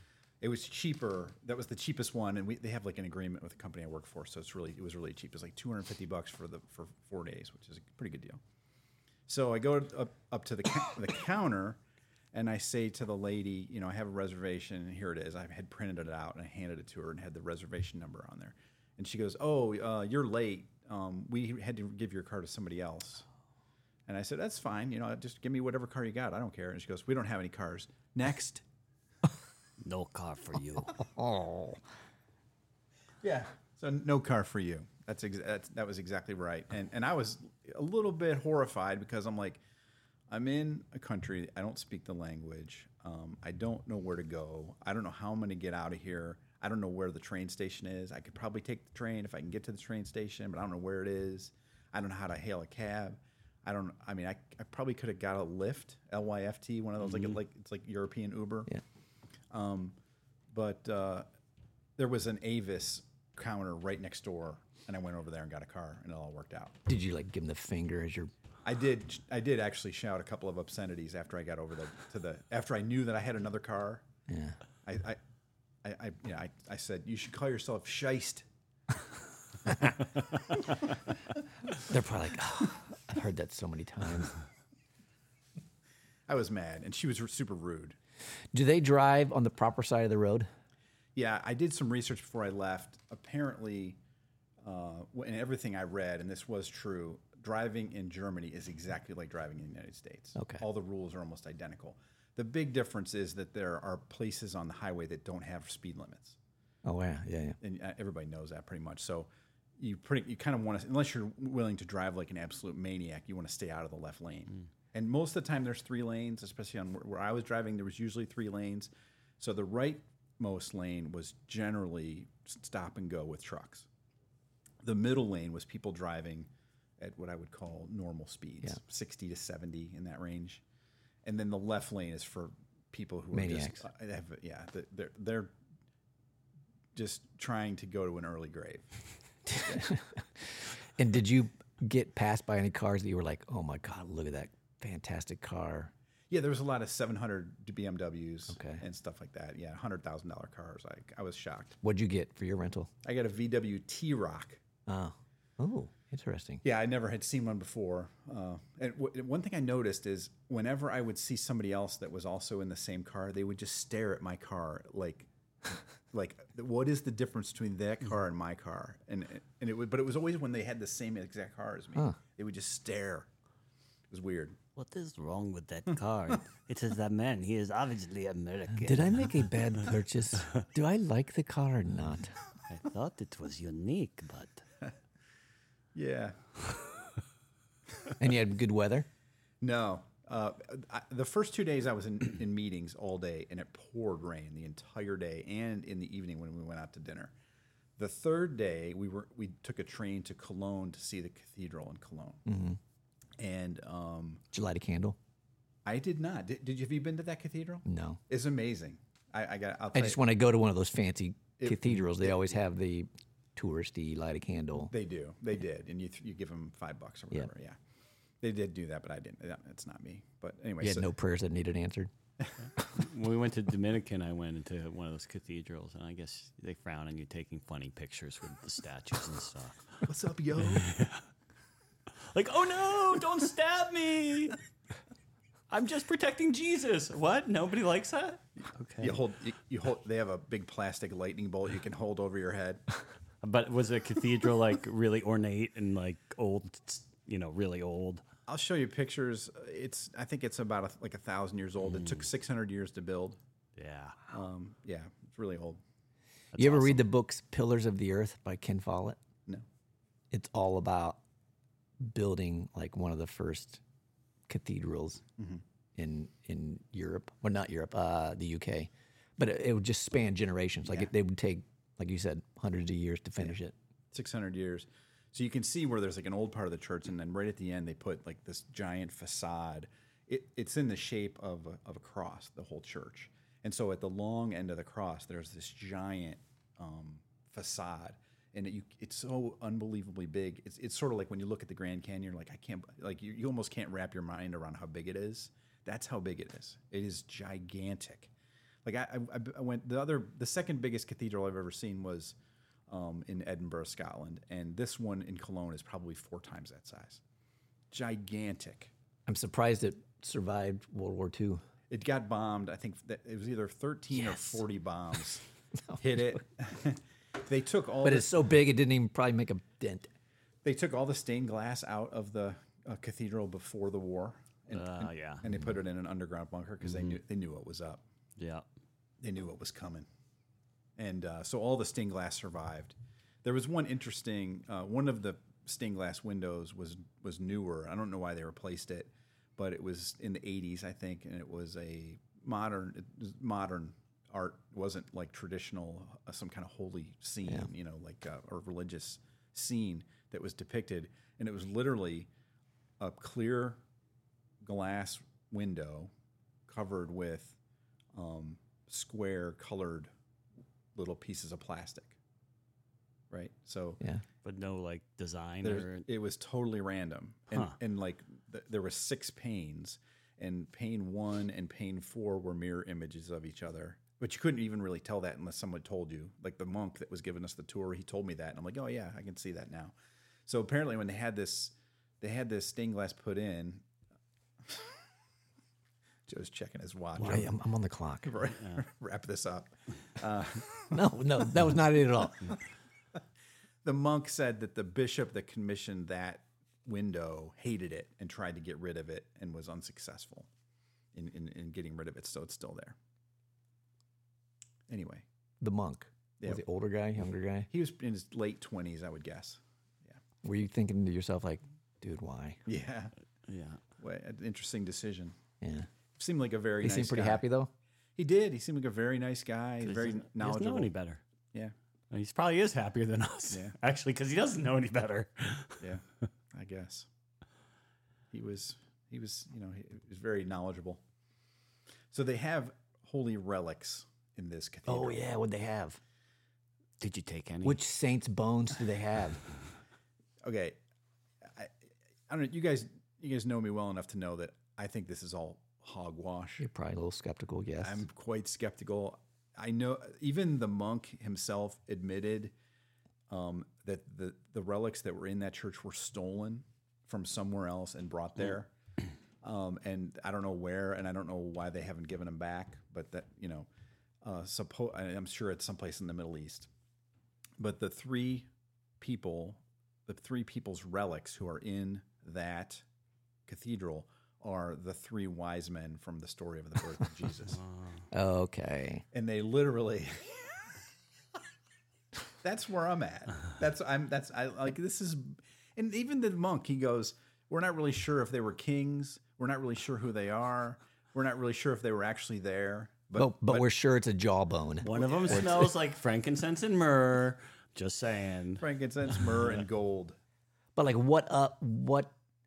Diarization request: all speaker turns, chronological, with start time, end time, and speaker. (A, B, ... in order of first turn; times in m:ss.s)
0:00.4-0:08.4 A
0:09.3-0:11.8 A
0:12.3-0:23.3 A
0:24.1-0:28.6 A
0:29.8-0:31.0 B
0:30.9-0:31.8 C
0:33.2-0:39.6 A
0:40.3-0:58.7 A
0:59.5-1:00.0 A
1:00.5-1:01.3 A
1:02.0-1:06.8 A
1:06.9-1:08.3 C
1:08.6-1:14.0 A
1:14.3-1:14.6 C
1:14.8-1:15.2 A
1:15.8-1:18.5 A
1:21.8-1:24.3 C
1:26.3-1:28.0 A
1:28.5-1:30.5 C
1:31.2-1:34.0 A
1:34.6-1:46.4 A
1:40.4-1:40.6 C
1:46.8-1:47.6 C
1:47.6-2:03.9 A
2:04.8-2:10.6 A
2:11.2-2:15.5 A
2:13.3-2:13.8 C
2:17.0-2:18.9 A
2:19.5-2:25.9 C
2:26.3-2:31.8 A
2:28.5-2:28.8 C
2:31.8-2:32.9 C
2:33.0-2:34.6 A
2:34.9-2:36.6 C
2:36.6-2:45.3 A
2:46.1-2:53.3 A
2:54.1-2:54.6 A
2:54.8-2:59.5 B
2:58.7-3:02.3 C
3:02.7-3:04.6 B
3:06.0-3:06.4 A
3:08.2-3:09.1 C
3:09.6-3:17.3 A
3:18.0-3:22.4 A
3:22.5-3:22.8 C
3:23.4-3:24.4 A
3:24.5-3:25.2 C
3:25.8-3:30.2 A
3:27.9-3:28.2 C
3:29.9-3:34.9 C
3:31.6-3:32.5 A
3:34.9-3:37.8 A
3:38.4-3:41.1 A
3:40.8-3:42.1 C
3:42.8-3:50.0 B
3:50.0-3:50.9 A
3:50.6-3:51.2 B
3:52.3-3:54.6 B
3:55.7-3:59.2 B
3:59.0-4:02.8 A
4:03.4-4:08.2 B
4:08.5-4:13.4 A
4:11.9-4:12.2 B
4:13.8-4:14.2 B
4:14.3-4:15.8 A
4:16.5-4:17.0 B
4:16.6-4:19.2 C
4:20.3-4:21.2 C
4:22.0-4:23.8 C
4:24.5-4:25.2 C
4:25.4-4:25.6 A
4:26.0-4:33.7 C
4:30.9-4:31.1 A
4:34.1-4:58.3 A
4:58.8-5:02.4 A
5:02.9-5:07.2 A
5:07.9-5:08.9 A
5:09.3-5:11.6 C
5:11.9-5:15.4 A
5:14.2-5:14.6 C
5:15.9-5:16.4 C
5:16.0-5:18.4 A
5:18.0-5:20.1 C
5:20.6-5:28.0 A
5:24.7-5:25.5 B
5:26.9-5:27.2 B
5:28.4-5:28.6 B
5:29.2-5:30.1 A
5:31.0-5:52.3 A
5:53.0-5:53.8 A
5:54.6-5:56.1 A
5:56.7-5:57.6 A
5:58.1-6:00.1 A
6:01.0-6:02.2 A
6:03.3-6:04.0 A
6:04.4-6:06.1 B
6:05.6-6:19.9 A
6:20.5-6:23.8 A
6:24.6-6:25.0 A
6:26.3-6:27.5 A
6:27.2-6:28.3 C
6:28.2-6:31.0 A
6:30.9-6:32.6 C
6:33.8-6:40.5 A
6:41.1-6:43.0 A
6:44.9-6:45.2 A
6:45.6-6:47.7 C
6:47.7-6:50.2 A
6:50.4-6:52.6 C
6:52.7-6:53.1 A
6:53.5-6:53.8 B
6:54.0-6:55.4 A
6:55.6-6:55.9 C
6:56.2-6:57.5 A
6:56.8-6:57.7 C
6:58.2-7:00.9 A
6:59.8-7:01.2 B
7:02.1-7:05.9 B
7:05.8-7:07.1 A
7:08.3-7:11.0 A
7:12.1-7:15.3 A
7:14.9-7:16.0 C
7:17.0-7:17.8 B
7:17.6-7:19.4 C
7:20.4-7:20.8 A
7:21.4-7:21.8 A
7:22.3-7:26.7 A
7:26.6-7:28.1 C
7:27.8-7:32.5 A
7:33.3-7:38.7 A
7:39.4-7:43.7 A
7:44.2-7:46.7 A
7:47.6-7:48.5 A
7:49.0-7:52.8 A
7:53.5-7:57.6 A
7:57.5-7:58.0 B
7:58.1-7:59.0 C
7:59.1-8:00.6 A
8:02.4-8:13.7 A
8:13.2-8:15.7 C
8:14.8-8:15.7 A
8:14.9-8:18.6 B
8:18.6-8:20.2 A
8:19.2-8:19.6 B
8:20.8-8:22.1 C